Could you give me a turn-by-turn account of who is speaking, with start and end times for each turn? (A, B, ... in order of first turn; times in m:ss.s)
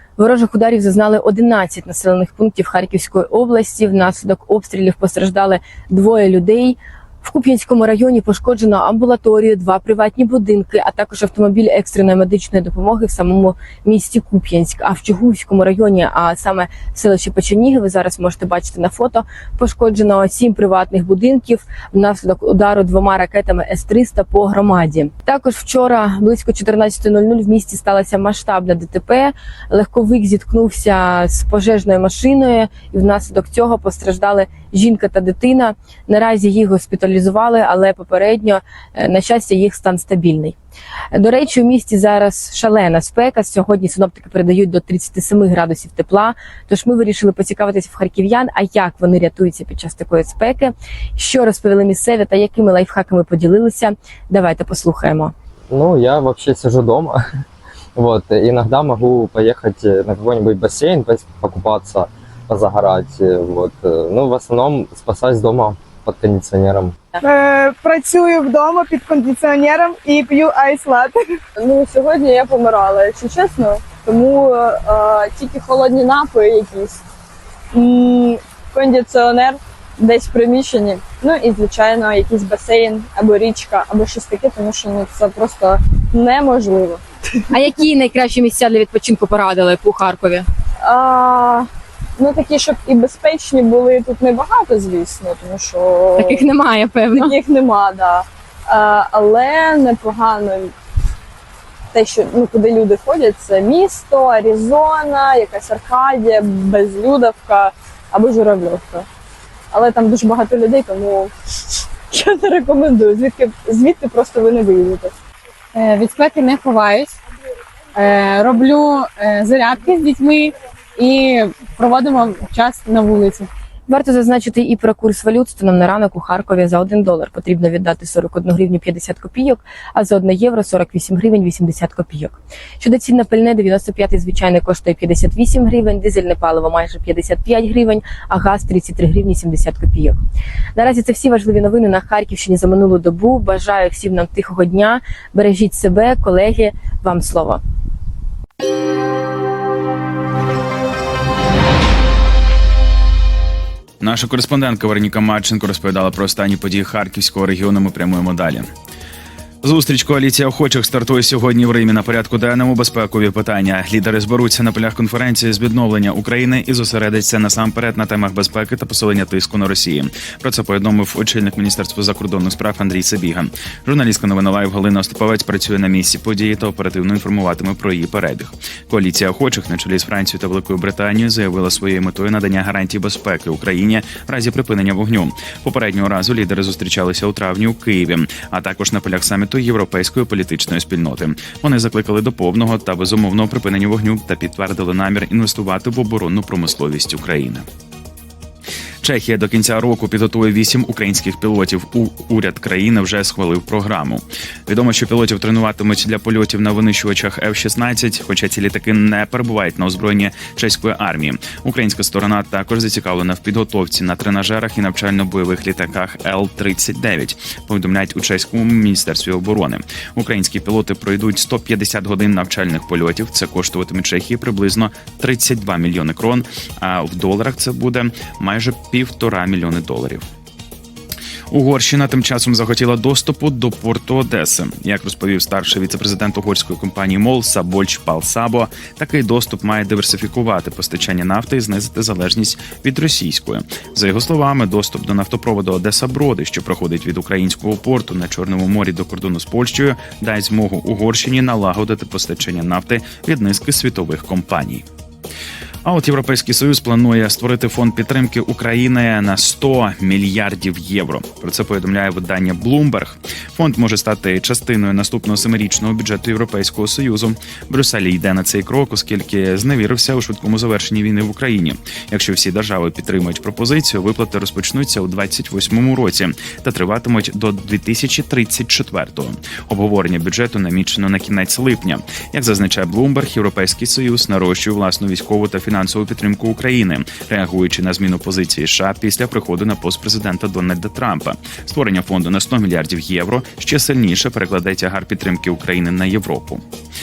0:00.2-0:40.6 A
0:41.1-0:55.3 A
0:55.7-0:57.2 B
0:58.0-1:07.0 B
1:07.3-1:11.2 C
1:11.6-1:17.0 D
1:17.7-1:27.0 D
1:27.5-1:30.4 A
1:30.8-1:31.7 D
1:32.2-1:36.4 D
1:36.2-1:37.3 A
1:37.2-1:40.7 D
1:41.9-1:49.1 D
1:49.7-1:55.1 D
1:55.8-1:57.2 E
1:58.0-2:03.5 E
2:03.9-2:20.2 A
2:20.8-2:27.6 A
2:34.0-2:38.7 F
2:39.6-3:17.7 F
3:19.0-3:50.2 F
3:51.5-4:14.9 F
4:15.8-4:56.6 F